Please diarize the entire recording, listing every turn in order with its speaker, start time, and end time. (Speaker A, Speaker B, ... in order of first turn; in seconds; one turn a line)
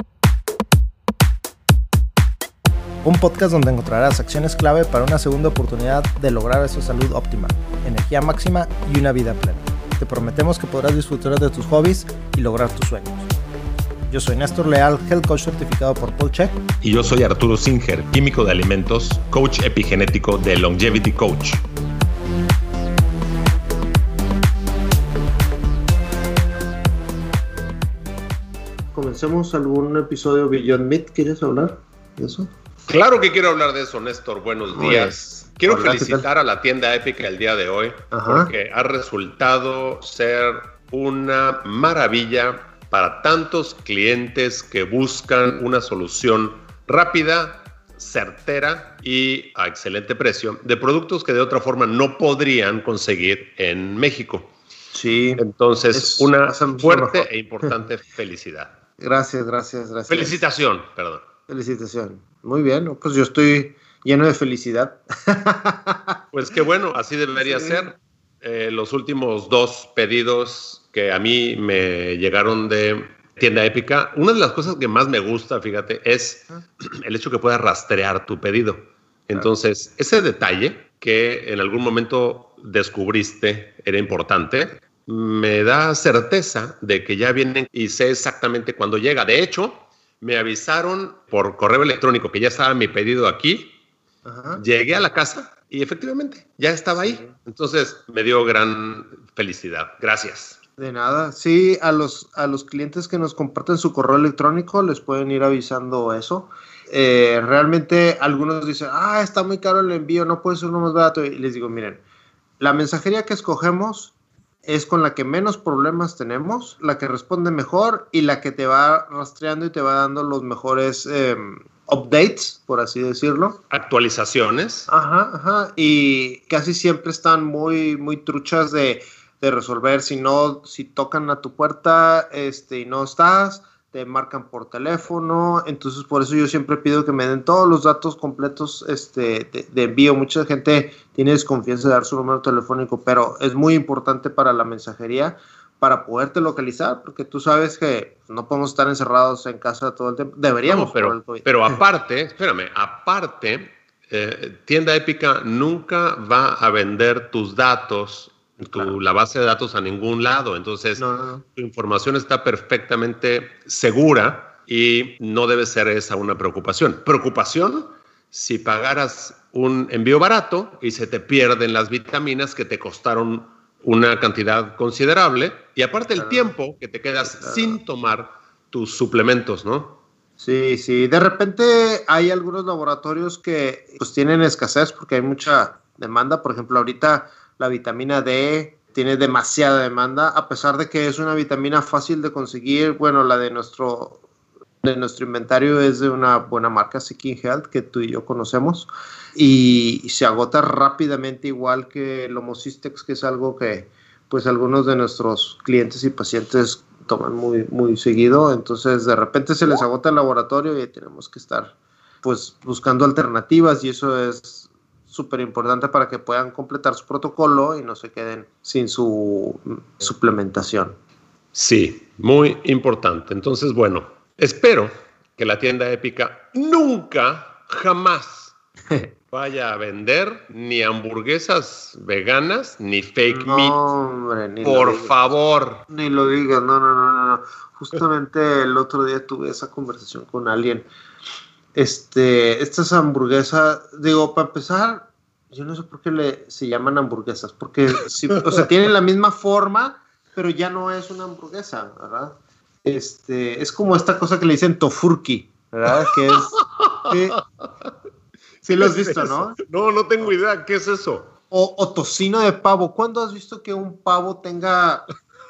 Speaker A: 3.0-13.3
Speaker A: 14.1-16.6
Speaker B: 16.8-21.6
Speaker C: 28.9-32.5
Speaker B: 32.9-54.5
Speaker C: 34.7-36.2
Speaker C: 38.1-38.5
Speaker C: 54.9-55.4
Speaker B: 55.4-58.8
Speaker C: 55.9-57.7
Speaker C: 59.0-60.4
Speaker B: 60.1-61.2
Speaker C: 61.5-66.2
Speaker B: 66.3-93.7
Speaker C: 67.4-67.9
Speaker C: 94.2-94.6
Speaker B: 94.6-100.6
Speaker C: 97.0-97.3
Speaker C: 100.8-112.0
Speaker C: 112.6-114.1
Speaker C: 114.6-123.6
Speaker B: 123.7-124.9
Speaker C: 124.9-151.8
Speaker B: 150.6-161.0
Speaker C: 161.0-161.4
Speaker B: 161.6-180.0
Speaker C: 176.2-176.5
Speaker C: 177.4-177.8
Speaker C: 180.4-194.2
Speaker C: 194.8-220.9
Speaker B: 221.5-228.5
Speaker B: 229.3-233.8
Speaker C: 233.3-235.2
Speaker B: 234.6-235.8
Speaker C: 235.9-240.9
Speaker C: 241.7-257.4
Speaker B: 255.9-257.4
Speaker C: 258.6-259.6
Speaker B: 258.8-261.3
Speaker C: 261.5-265.1